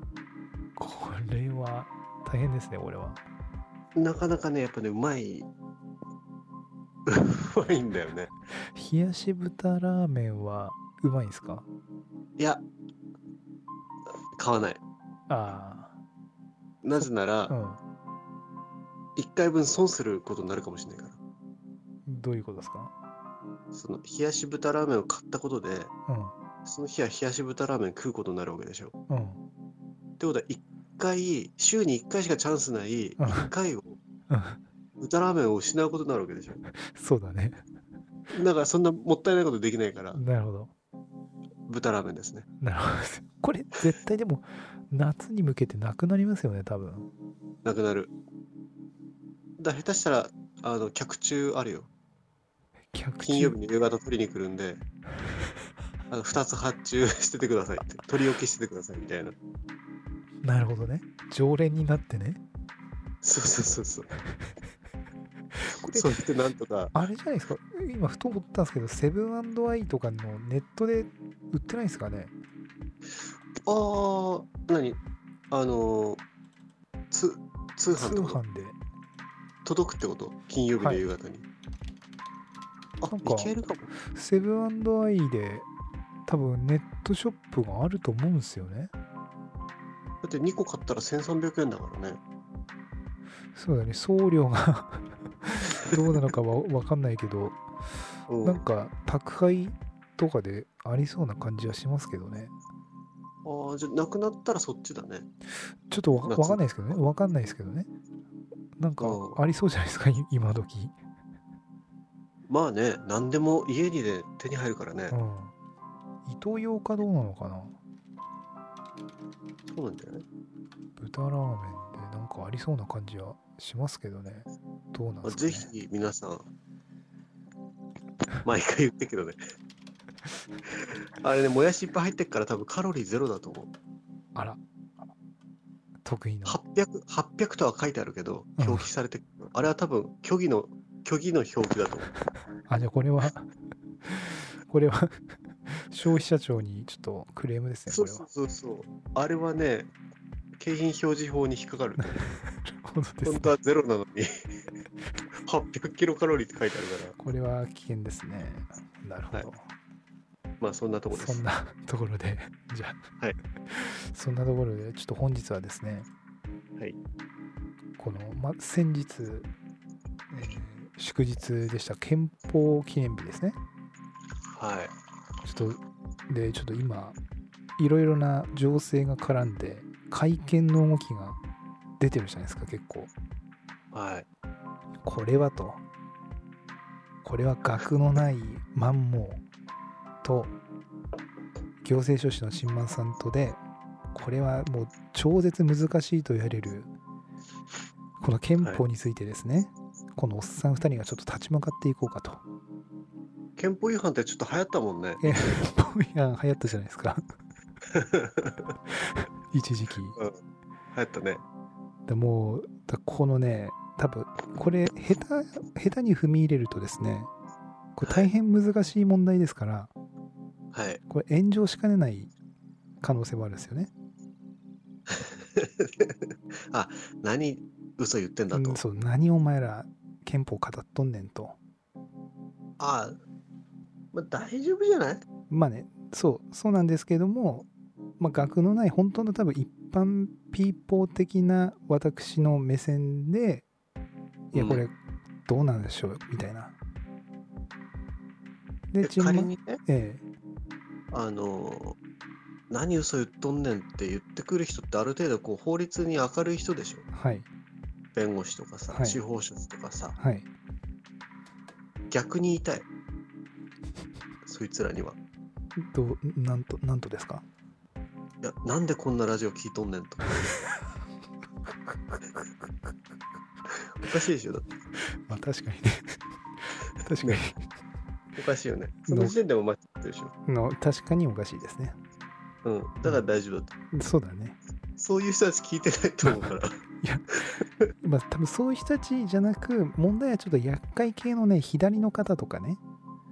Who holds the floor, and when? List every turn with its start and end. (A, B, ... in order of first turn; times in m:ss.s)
0:00.8-0:03.2 A
0:04.0-0:05.5 B
0:07.1-0:08.3 B
0:08.7-0:11.7 A
0:12.4-0:12.6 B
0:14.4-0:14.8 B
0:15.3-0:16.0 A
0:16.8-0:17.5 B
0:17.0-0:17.8 A
0:19.2-0:21.2 B
0:22.1-0:22.9 A
0:23.7-0:25.9 B
0:26.1-0:26.3 A
0:26.6-0:28.9 B
0:29.1-0:29.4 A
0:30.2-0:34.0 B
0:33.2-0:33.5 A
0:34.3-0:34.6 A
0:35.0-0:36.6 B
0:36.9-0:37.6 A
0:38.3-0:40.2 B
0:40.1-0:40.7 A
0:41.7-0:42.5 B
0:42.6-0:47.1 A
0:47.6-0:48.1 B
0:49.6-0:51.9 B
0:52.9-0:53.6 A
0:53.2-0:54.8 B
0:56.1-0:59.4 B
1:00.4-1:02.4 A
1:03.2-1:04.1 B
1:05.6-1:06.1 A
1:05.8-1:06.9 B
1:06.9-1:12.3 A
1:13.6-1:15.0 B
1:15.5-1:16.2 B
1:17.1-1:18.4 B
1:17.9-1:18.8 A
1:19.6-1:21.4 B
1:20.8-1:21.1 A
1:23.0-1:23.9 B
1:23.0-1:23.5 A
1:24.1-1:25.7 A
1:26.3-1:28.9 A
1:30.2-1:32.2 B
1:33.6-1:37.6 A
1:38.3-1:38.6 B
1:38.4-1:42.5 A
1:43.4-1:45.3 B
1:45.9-1:47.9 A
1:46.3-1:47.0 B
1:48.8-1:50.9 A
1:49.0-1:49.4 B
1:52.5-1:55.2 B
1:55.1-1:55.5 A
1:56.3-1:57.7 A
1:59.7-2:00.2 B
2:01.0-2:05.7 A
2:05.2-2:06.5 B
2:08.4-2:09.4 B
2:10.7-2:13.7 B
2:14.4-2:14.6 A
2:16.0-2:16.6 A
2:16.5-2:22.1 B
2:18.6-2:18.9 A
2:22.7-2:23.5 A
2:24.0-2:28.2 A
2:27.9-2:29.9 B
2:30.6-2:32.2 B
2:32.0-2:33.6 A
2:33.2-2:34.4 B
2:35.4-2:37.2 B
2:37.2-2:39.7 A
2:40.6-2:41.4 B
2:41.1-2:43.0 A
2:43.7-2:46.1 A
2:48.0-2:49.5 A
2:50.3-2:53.6 A
2:54.5-2:54.9 B
2:55.4-2:57.2 A
2:57.8-3:01.4 A
3:02.0-3:03.1 A
3:03.9-3:04.3 B
3:05.0-3:05.8 A
3:07.2-3:09.4 A
3:10.2-3:10.5 A
3:11.8-3:13.6 A
3:14.1-3:16.9 A
3:18.2-3:22.4 A
3:23.6-3:25.5 B
3:25.2-3:27.2 A
3:27.9-3:28.7 B
3:29.0-3:30.2 A
3:30.9-3:31.4 B
3:32.1-3:37.3 A
3:38.0-3:39.9 A
3:38.0-3:38.3 B
3:40.7-3:41.0 B
3:41.1-3:42.3 A
3:43.0-3:43.9 A
3:45.1-3:48.8 B
3:48.5-3:51.6 A
3:52.8-3:53.2 B
3:54.1-3:55.2 B
3:55.5-3:57.7 A
3:58.2-4:03.7 A
4:04.5-4:06.8 A
4:04.5-4:04.8 B
4:08.9-4:10.2 A
4:09.0-4:09.8 B
4:11.1-4:12.0 B
4:12.7-4:17.1 B
4:17.1-4:17.5 A
4:18.2-4:20.2 B
4:18.9-4:19.2 A
4:20.2-4:20.5 A
4:22.1-4:22.9 B
4:24.4-4:25.2 B
4:25.8-4:27.4 A
4:28.4-4:30.4 B
4:33.7-4:34.6 B
4:35.3-4:37.6 A
4:38.4-4:40.3 B
4:39.1-4:39.4 A
4:40.5-4:42.0 A
4:42.6-4:43.7 B
4:43.9-4:44.6 A
4:45.0-4:46.8 B
4:47.0-4:47.3 A
4:48.0-4:52.8 A